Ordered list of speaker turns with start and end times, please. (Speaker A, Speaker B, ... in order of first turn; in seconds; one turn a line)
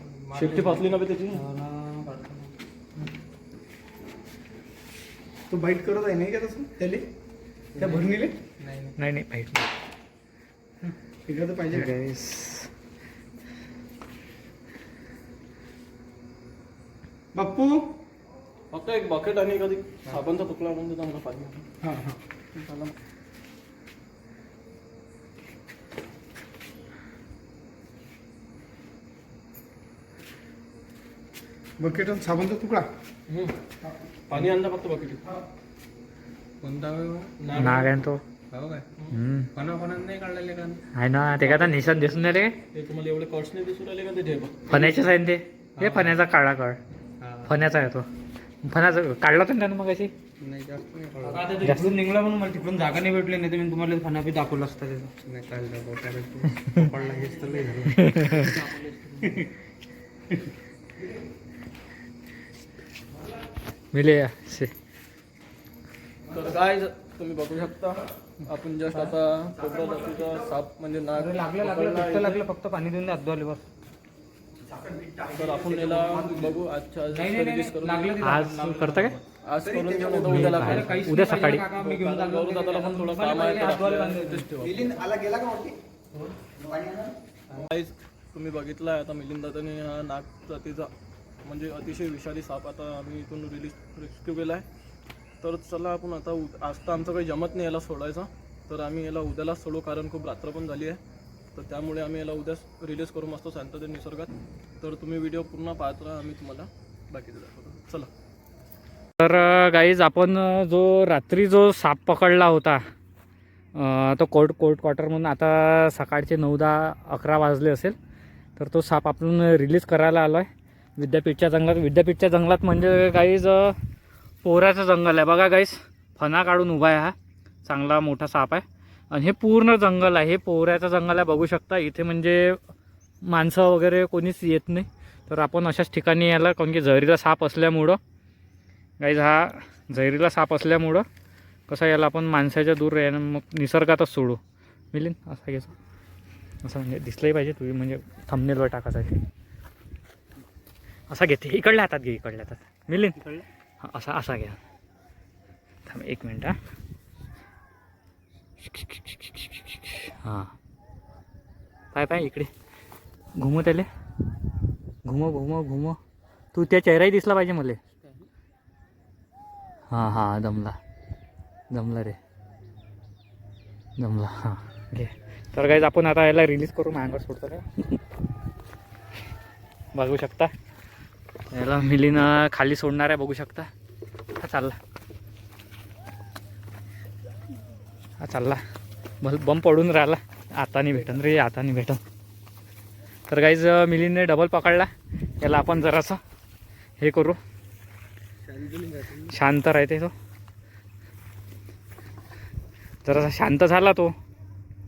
Speaker A: 0.3-1.4
Speaker B: 0.4-0.7
Speaker B: 1.3-2.5
Speaker C: 5.5-7.1
Speaker C: 7.8-8.4
Speaker D: 8.6-8.9
Speaker E: 9.0-9.7
Speaker C: 10.8-11.9
Speaker E: 11.7-12.7
Speaker C: 17.3-17.9
Speaker A: 18.7-21.7
Speaker C: 21.8-22.2
Speaker A: 22.6-22.9
Speaker C: 31.8-32.9
Speaker A: 33.3-33.5
Speaker C: 33.8-34.4
Speaker A: 34.3-35.2
Speaker D: 36.6-37.4
Speaker A: 37.4-38.0
Speaker E: 37.5-38.2
Speaker D: 38.5-38.9
Speaker E: 39.1-39.5
Speaker D: 39.6-40.8
Speaker E: 40.9-42.6
Speaker A: 41.4-41.8
Speaker A: 42.7-45.0
Speaker E: 44.7-46.8
Speaker D: 45.8-46.1
Speaker D: 47.2-47.5
Speaker E: 47.4-48.1
Speaker E: 48.6-50.1
Speaker D: 50.4-51.5
Speaker B: 51.2-55.1
Speaker E: 51.6-51.9
Speaker D: 55.2-58.0
Speaker B: 56.8-59.5
Speaker E: 57.9-58.6
Speaker E: 63.9-64.7
Speaker A: 66.3-72.5
Speaker D: 69.6-70.5
Speaker B: 71.1-73.6
Speaker D: 74.6-76.6
Speaker A: 75.3-78.2
Speaker B: 77.1-79.2
Speaker E: 78.2-79.2
Speaker A: 79.3-81.1
Speaker D: 79.6-80.5
Speaker E: 80.2-81.7
Speaker B: 80.5-84.5
Speaker A: 81.7-85.0
Speaker D: 84.6-85.8
Speaker D: 86.4-87.2
Speaker A: 87.5-90.9
Speaker A: 91.4-94.7
Speaker A: 95.4-101.0
Speaker A: 101.5-108.1
Speaker E: 109.2-112.8
Speaker E: 113.8-118.0
Speaker E: 118.6-123.8
Speaker E: 124.4-127.2
Speaker E: 127.7-132.6
Speaker E: 133.2-138.0
Speaker E: 139.0-141.1
Speaker E: 141.7-144.4
Speaker E: 144.9-145.7
Speaker E: 146.6-149.2
Speaker E: 151.1-154.6
Speaker E: 155.9-156.6
Speaker E: 158.6-160.5
Speaker E: 161.9-162.5
Speaker E: 163.4-163.9
Speaker E: 165.0-166.0
Speaker E: 166.5-167.8
Speaker B: 167.9-168.3
Speaker E: 169.9-170.8
Speaker E: 171.7-172.2
Speaker E: 174.0-178.0
Speaker E: 179.9-180.5
Speaker E: 181.5-183.7
Speaker E: 184.4-184.8
Speaker E: 188.2-188.6
Speaker E: 189.2-192.0
Speaker E: 193.3-196.2
Speaker E: 197.0-197.4
Speaker D: 198.6-199.3
Speaker E: 199.2-200.1
Speaker E: 203.1-204.1